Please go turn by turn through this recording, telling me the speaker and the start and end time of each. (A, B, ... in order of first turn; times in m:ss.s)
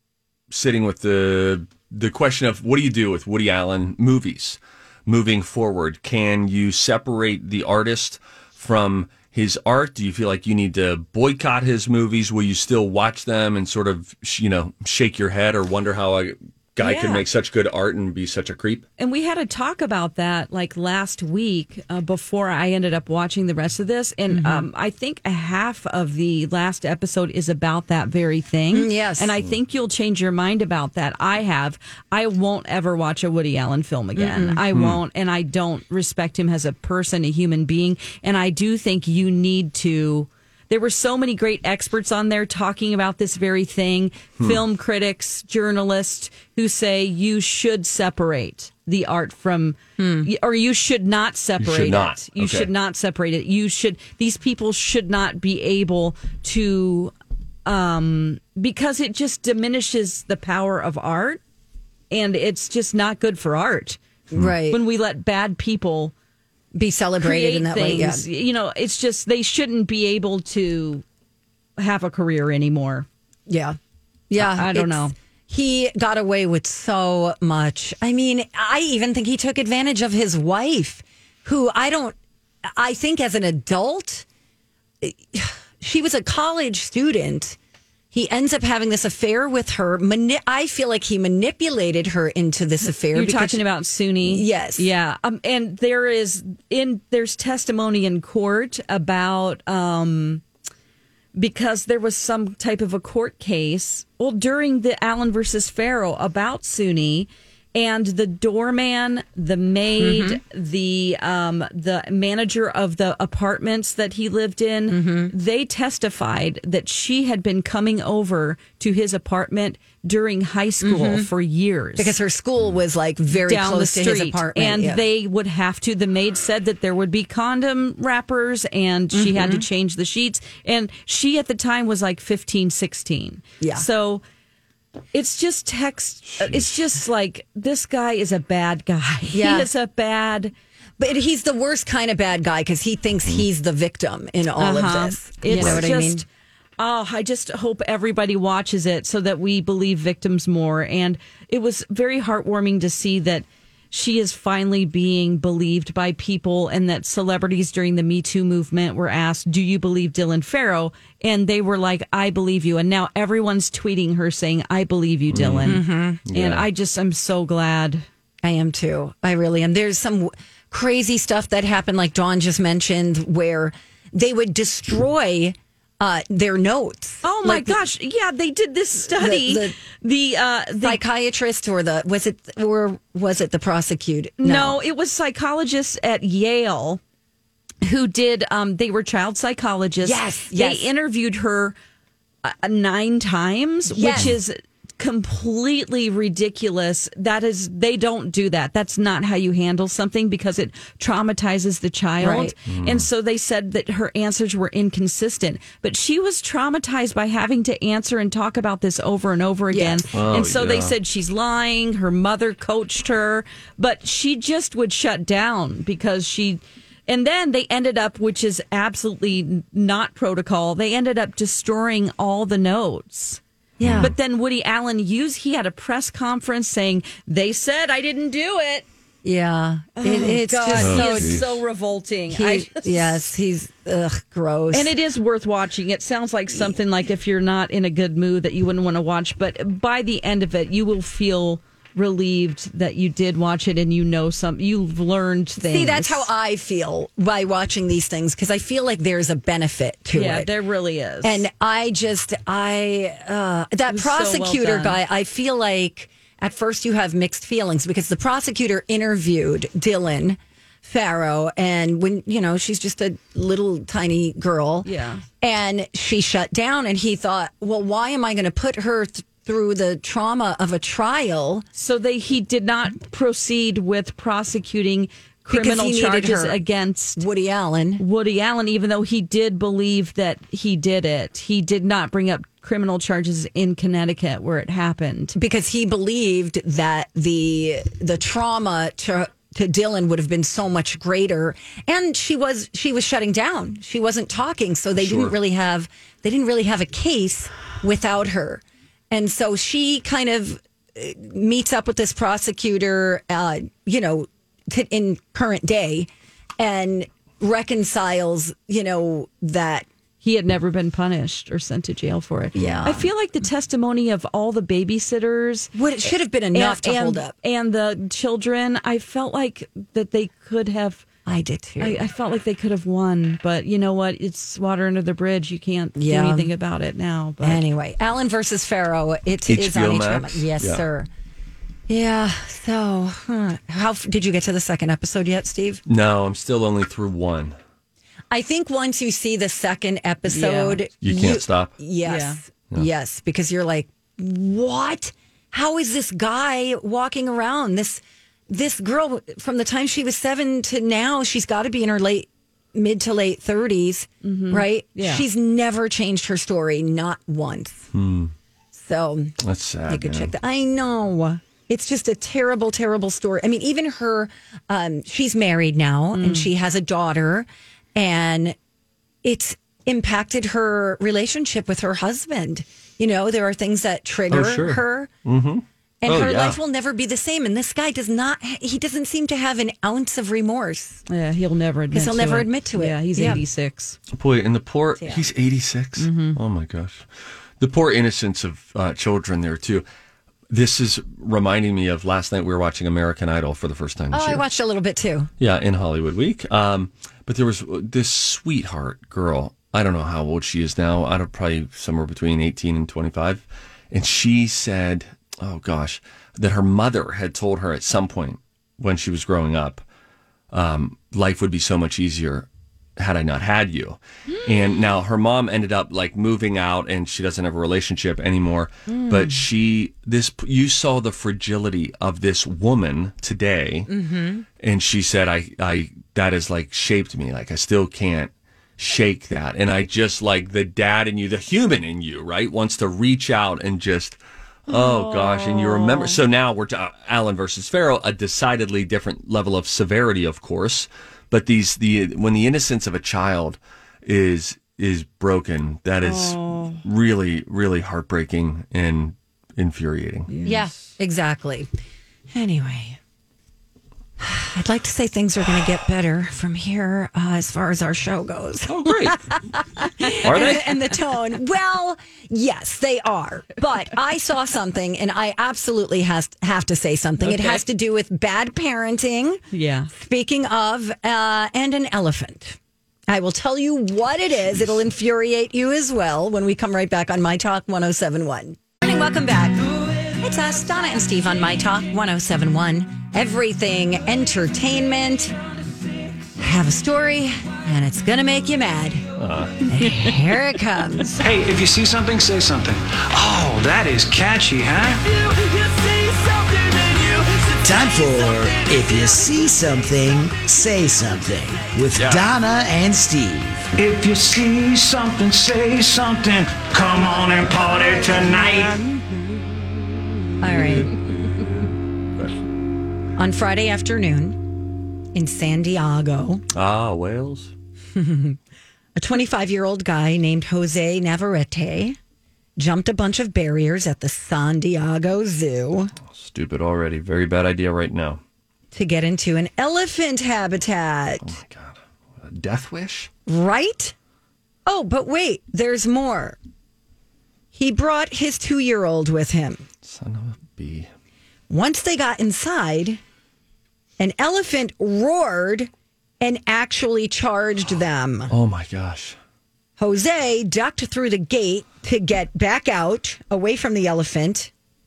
0:00.5-0:18.8 A
0:16.8-0:17.2 B
0:19.0-0:57.1 C
0:24.3-0:24.7 B
0:28.7-0:29.3 B
0:34.2-0:34.6 B
0:34.7-0:35.0 A
0:50.0-0:50.3 B
0:51.6-0:52.7 A
0:57.7-1:01.4 C
1:02.1-1:04.0 C
1:04.3-1:04.8 B
1:04.7-1:06.1 C
1:06.7-1:08.2 B
1:07.2-1:11.0 C
1:11.8-1:13.1 C
1:13.5-1:13.8 B
1:14.3-1:24.3 B
1:14.4-1:15.1 C
1:25.0-1:27.6 B
1:28.1-1:33.6 B
1:33.1-1:40.4 C
1:34.2-1:34.9 B
1:41.4-2:02.1 C
1:50.0-1:50.4 B
1:54.9-1:55.3 B
2:00.8-2:01.3 B
2:02.0-2:05.0 B
2:03.4-2:14.2 C
2:09.1-2:09.7 B
2:15.1-2:20.5 C
2:16.4-2:16.7 A
2:19.3-2:19.7 B
2:21.0-2:26.2 B
2:24.6-2:26.3 C
2:25.6-2:25.8 A
2:26.8-2:48.0 C
2:45.3-2:46.7 A
2:45.6-2:46.2 B
2:48.4-2:57.8 B
2:57.2-3:01.0 C
2:59.0-2:59.8 B
3:00.8-3:04.8 B
3:04.4-3:07.0 C
3:07.8-3:11.8 C
3:10.0-3:10.9 B
3:12.4-3:43.4 C
3:13.9-3:14.3 B
3:22.2-3:22.5 B
3:22.7-3:23.1 A
3:29.7-3:30.1 B
3:30.1-3:30.9 A
3:43.8-3:44.1 B
3:43.8-3:44.1 A
3:44.0-3:48.8 C
3:49.2-3:51.4 B
3:50.0-3:53.2 C
3:50.8-3:51.6 A
3:52.3-3:55.0 B
3:54.7-4:06.3 C
3:56.5-3:56.8 B
4:05.6-4:10.5 B
4:10.1-4:11.4 C
4:11.2-4:24.9 B
4:13.9-4:15.0 C
4:24.8-4:25.2 C
4:25.4-4:31.6 B
4:31.8-4:37.2 C
4:35.5-4:36.6 B
4:37.2-4:38.0 B
4:38.0-4:45.4 C
4:45.4-5:09.9 B
4:55.0-4:55.3 A
5:10.2-5:21.0 C
5:12.5-5:13.0 B
5:12.6-5:13.0 A
5:15.8-5:17.3 B
5:21.3-5:22.1 B
5:21.8-5:27.6 C
5:26.0-5:26.5 B
5:27.4-5:31.1 B
5:29.5-5:30.8 A
5:31.9-5:35.8 B
5:35.9-5:37.6 A
5:38.3-5:57.9 B
5:40.3-5:40.8 C
5:41.0-5:41.7 A
5:42.0-5:42.4 C
5:54.2-5:55.2 C
5:57.9-5:58.3 A
5:58.7-5:59.4 B
5:59.4-6:00.3 A
5:59.9-6:08.6 B
6:06.1-6:06.5 C
6:09.2-6:15.1 B
6:14.3-6:16.6 A
6:16.0-6:21.0 B
6:21.1-6:24.0 C
6:21.9-6:23.4 B
6:24.1-6:27.1 A
6:25.0-6:25.2 B
6:26.0-6:26.4 C
6:27.6-6:29.8 A
6:30.5-6:34.4 A
6:34.1-6:35.3 B
6:35.4-6:49.8 A
6:50.5-7:03.9 A
6:59.0-6:59.4 B
7:03.9-7:04.4 B
7:04.6-7:30.3 A
7:14.7-7:16.2 C
7:26.0-7:26.8 C
7:30.3-7:30.7 C
7:30.4-7:31.7 B
7:32.3-7:33.0 B
7:34.2-7:52.6 B
7:38.7-7:39.2 A
7:40.2-7:40.8 A
7:47.2-7:47.6 C
7:49.5-7:49.9 C
7:53.1-8:05.4 B
8:06.4-8:09.1 B
8:09.2-8:09.6 A
8:09.7-8:11.2 B
8:09.8-8:10.2 C
8:11.2-8:17.6 D
8:17.6-8:23.7 E
8:22.0-8:22.2 A
8:23.8-8:28.8 D
8:30.4-8:31.0 B
8:30.5-8:32.3 A
8:33.2-8:34.4 B
8:35.1-8:36.4 B
8:36.5-8:37.5 A
8:37.9-8:38.4 B
8:39.0-8:42.0 B
8:42.6-8:45.9 B
8:46.1-8:48.2 A
8:48.7-8:51.4 B
8:51.2-8:53.1 A
8:53.3-8:53.9 B
8:54.7-8:56.4 B
8:57.5-8:59.7 B
8:59.8-9:00.9 A
9:01.5-9:03.0 B
9:04.0-9:05.7 B
9:06.2-9:08.3 B
9:08.3-9:09.2 A
9:09.8-9:14.5 B